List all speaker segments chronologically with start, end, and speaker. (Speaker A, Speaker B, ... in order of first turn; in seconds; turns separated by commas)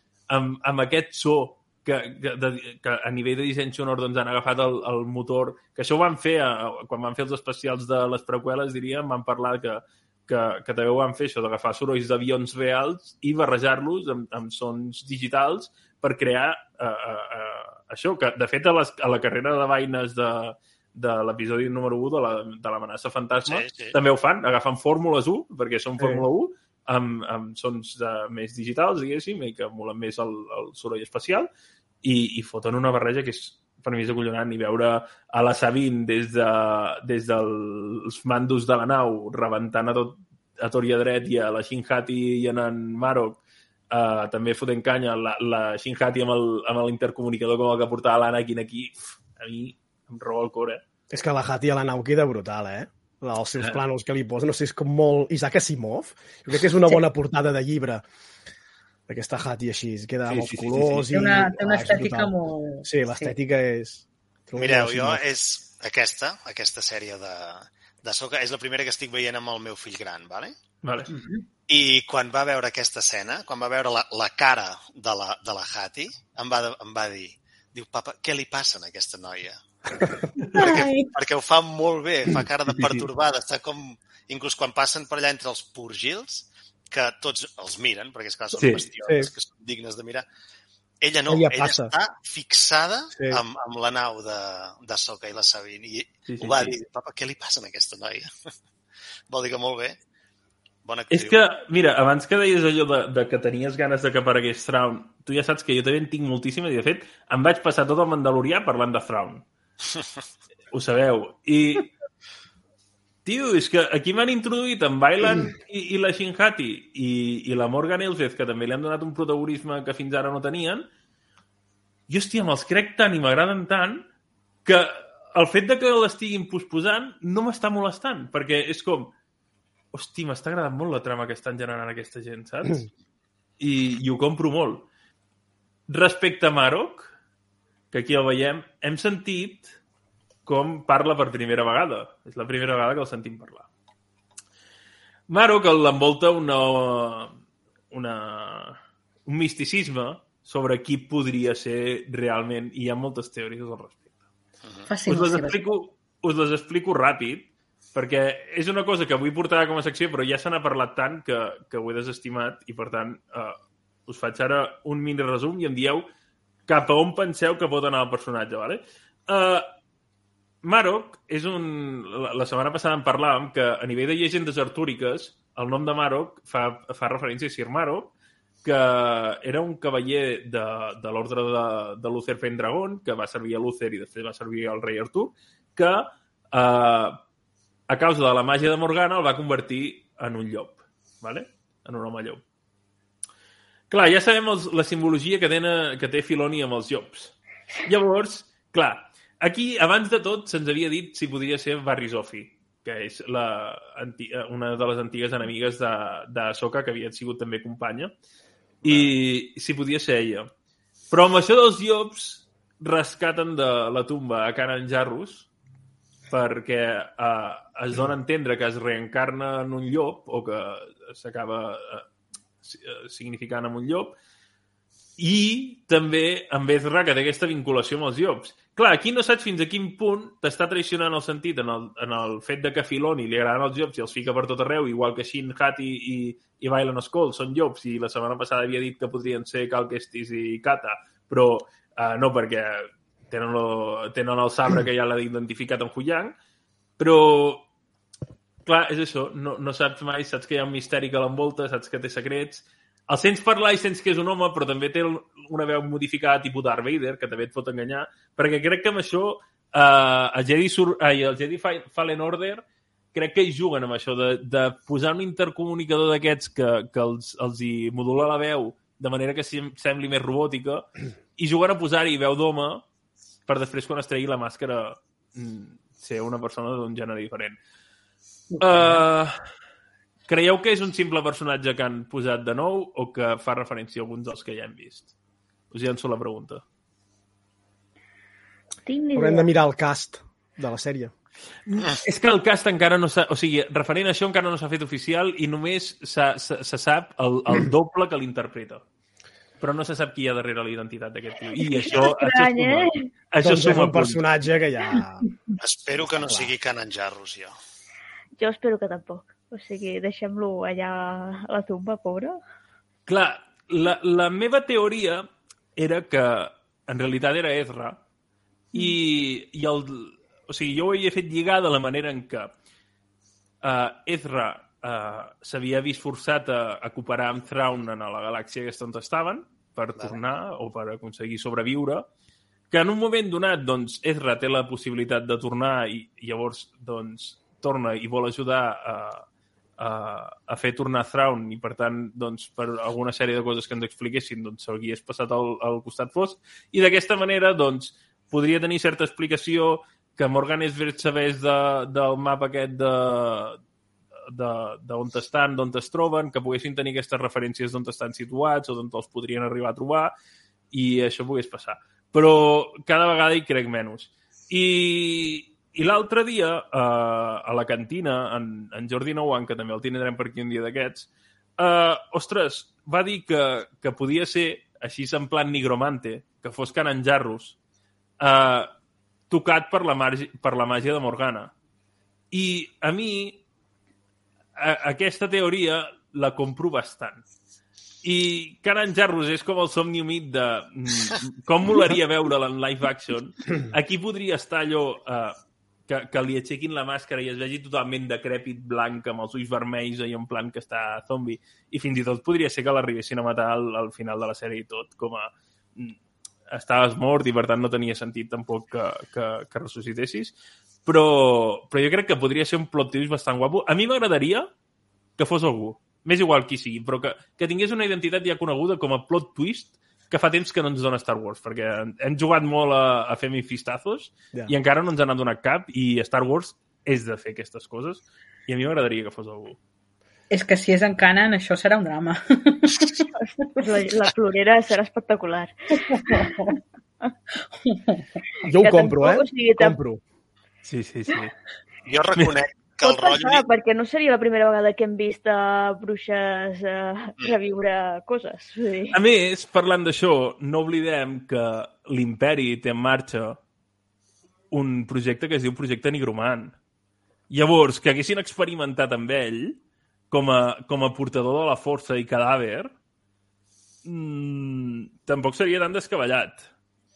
Speaker A: 0.3-31.5, Speaker B: 23.4-24.0, Speaker C: 26.0-26.2, Speaker A: 32.0-43.4, Speaker A: 43.9-50.8, Speaker C: 51.1-58.0, Speaker C: 59.1-62.3, Speaker A: 60.3-61.1, Speaker D: 61.1-63.3, Speaker C: 62.8-65.2, Speaker B: 64.6-70.5, Speaker A: 70.8-71.1, Speaker D: 71.1-71.4, Speaker B: 71.7-90.2, Speaker D: 80.6-81.1, Speaker A: 82.7-83.1, Speaker A: 88.6-88.9, Speaker B: 91.0-98.5, Speaker C: 91.3-91.9, Speaker C: 93.2-93.4, Speaker A: 96.3-96.8, Speaker B: 99.3-100.0, Speaker B: 100.8-101.4, Speaker A: 101.1-109.5, Speaker A: 110.7-111.9, Speaker A: 113.2-120.9, Speaker A: 122.1-124.0, Speaker A: 124.7-129.1, Speaker A: 129.9-132.9, Speaker A: 133.6-134.9, Speaker A: 135.9-137.1, Speaker A: 137.9-139.8, Speaker A: 140.5-143.7, Speaker A: 145.3-147.4, Speaker A: 147.9-154.0, Speaker D: 154.9-155.6, Speaker A: 155.1-163.6, Speaker A: 164.1-166.1, Speaker A: 166.7-169.7, Speaker A: 170.6-178.1, Speaker A: 178.6-187.2, Speaker A: 187.9-192.4, Speaker A: 193.9-208.1, Speaker B: 208.8-209.1, Speaker A: 208.8-210.5, Speaker A: 211.1-215.5, Speaker A: 216.3-222.1, Speaker A: 222.6-224.2, Speaker A: 225.2-246.3, Speaker A: 247.0-247.7, Speaker A: 248.7-262.6, Speaker A: 263.1-272.9, Speaker A: 273.5-277.6, Speaker D: 278.5-279.0, Speaker A: 278.6-279.4, Speaker A: 280.3-285.1, Speaker A: 285.7-286.6, Speaker E: 288.9-289.5, Speaker C: 289.2-291.1, Speaker A: 291.7-298.8, Speaker A: 299.6-304.2, Speaker E: 301.6-303.1, Speaker C: 303.4-305.2, Speaker B: 305.6-307.5, Speaker C: 306.2-306.5, Speaker E: 308.4-312.4, Speaker A: 313.1-315.2, Speaker A: 315.8-318.0, Speaker A: 318.7-322.5, Speaker A: 323.6-332.1, Speaker A: 332.7-339.3, Speaker A: 339.8-353.6, Speaker A: 354.3-360.1, Speaker A: 360.7-377.6, Speaker A: 378.2-378.7, Speaker A: 379.3-381.5, Speaker A: 382.3-383.4, Speaker A: 384.6-387.2, Speaker A: 388.0-395.4, Speaker A: 395.9-406.0, Speaker A: 406.5-414.5, Speaker A: 415.2-429.6, Speaker D: 430.3-433.1, Speaker E: 433.2-436.6, Speaker D: 435.9-436.6, Speaker D: 437.6-438.0, Speaker C: 438.4-440.0, Speaker E: 438.6-439.8, Speaker A: 440.6-441.3, Speaker B: 441.9-443.4, Speaker E: 442.8-449.0, Speaker A: 448.9-453.4, Speaker A: 454.5-456.6, Speaker A: 457.3-459.6, Speaker A: 460.1-462.7, Speaker A: 463.8-466.5